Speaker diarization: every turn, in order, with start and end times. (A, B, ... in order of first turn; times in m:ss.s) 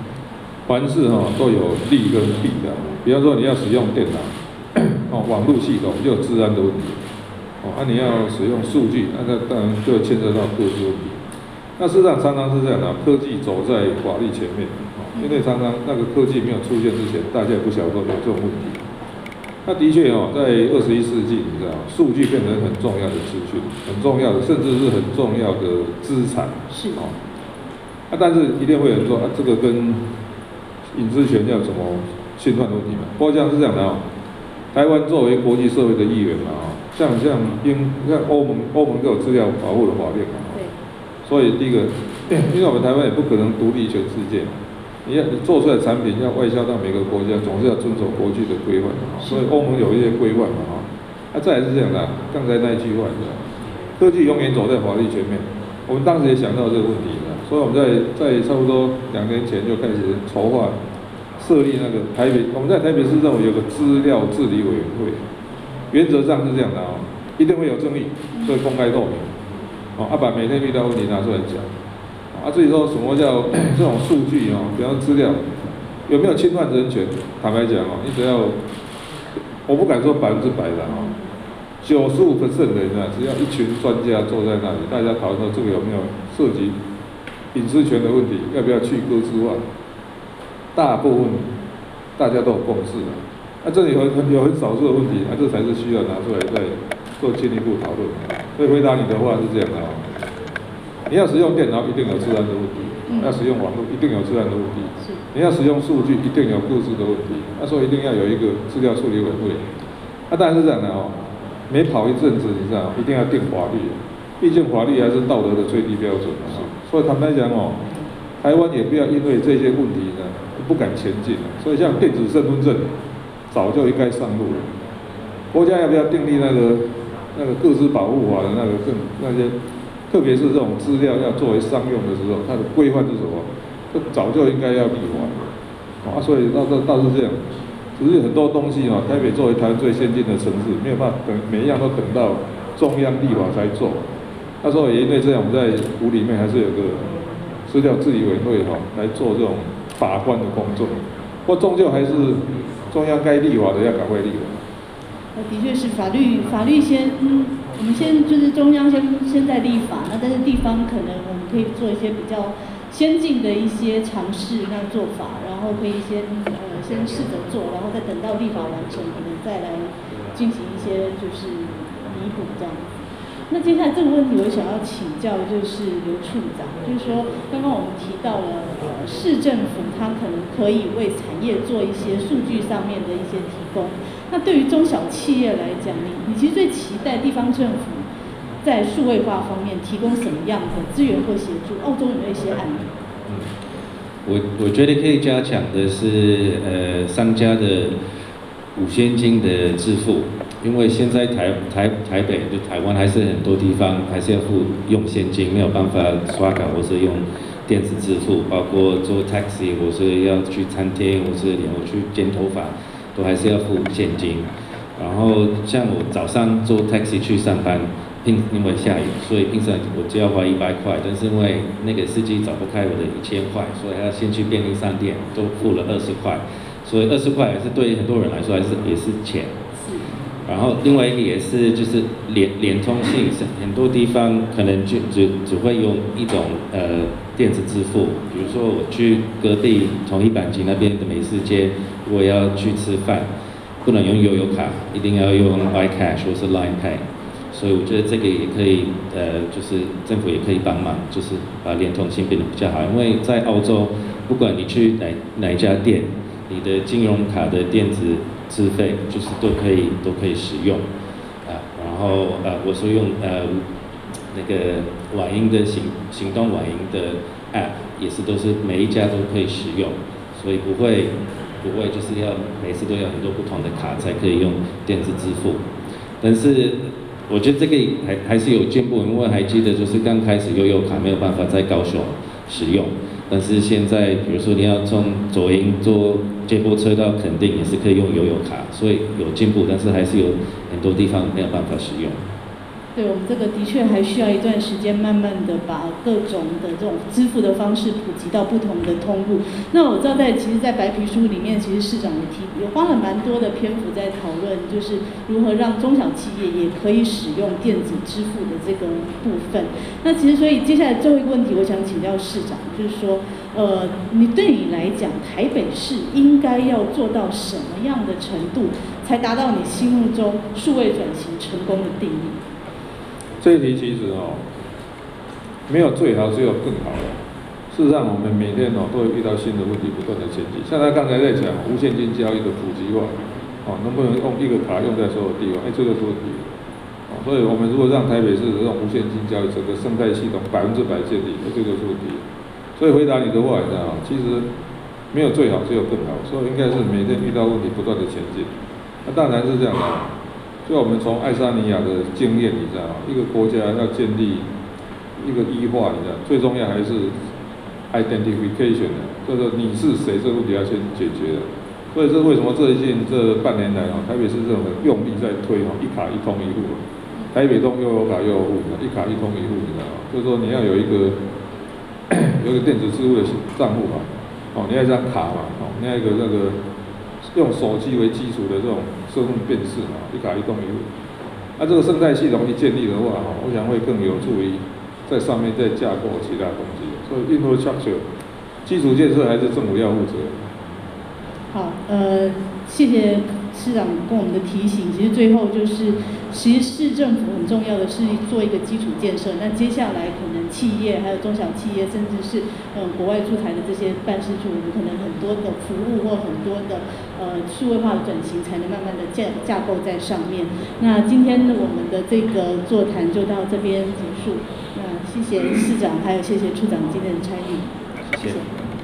0:00.7-0:07.0 A
0:07.6-0:11.2 A
0:11.8-0:18.8 A
0:19.6-0:27.1 A
0:26.7-0:27.0 B
0:28.1-0:30.0 A
0:30.9-0:34.0 A
0:34.7-0:40.6 A
0:41.2-0:53.4 A
0:49.2-0:49.5 B
0:54.0-1:00.8 A
1:01.4-1:05.2 A
1:05.9-1:09.3 A
1:10.0-1:11.7 A
1:12.3-1:18.6 A
1:19.7-1:21.1 A
1:20.9-1:21.2 B
1:21.8-1:26.8 A
1:27.5-1:29.6 A
1:30.7-1:31.5 A
1:32.2-1:40.0 A
1:41.1-1:49.6 A
1:43.1-1:43.4 B
1:50.3-1:57.8 A
1:58.4-2:02.9 A
2:03.5-2:04.7 A
2:05.5-2:09.5 A
2:10.1-2:15.4 A
2:16.0-2:17.4 A
2:18.0-2:24.0 A
2:24.6-2:27.1 A
2:27.7-2:34.6 A
2:35.3-2:52.9 B
2:53.5-3:08.0 B
3:08.6-3:12.9 B
3:14.2-3:17.9 C
3:18.8-3:49.5 C
3:49.8-3:50.0 B
3:50.4-4:03.3 C
4:03.8-4:20.8 C
4:21.4-4:23.6 C
4:24.3-4:35.6 C
4:36.2-4:52.2 C
4:52.9-5:22.4 B
5:23.4-5:24.4 A
5:25.7-5:27.2 A
5:27.7-5:36.4 A
5:37.1-5:42.2 A
5:42.8-5:44.4 A
5:45.1-5:48.5 A
5:49.0-5:50.1 A
5:50.6-5:54.5 A
5:55.2-5:57.1 A
5:57.9-6:06.8 A
6:07.3-6:11.2 A
6:12.1-6:16.6 A
6:17.3-6:20.8 A
6:21.6-6:28.0 A
6:28.6-6:30.4 A
6:31.5-6:58.5 B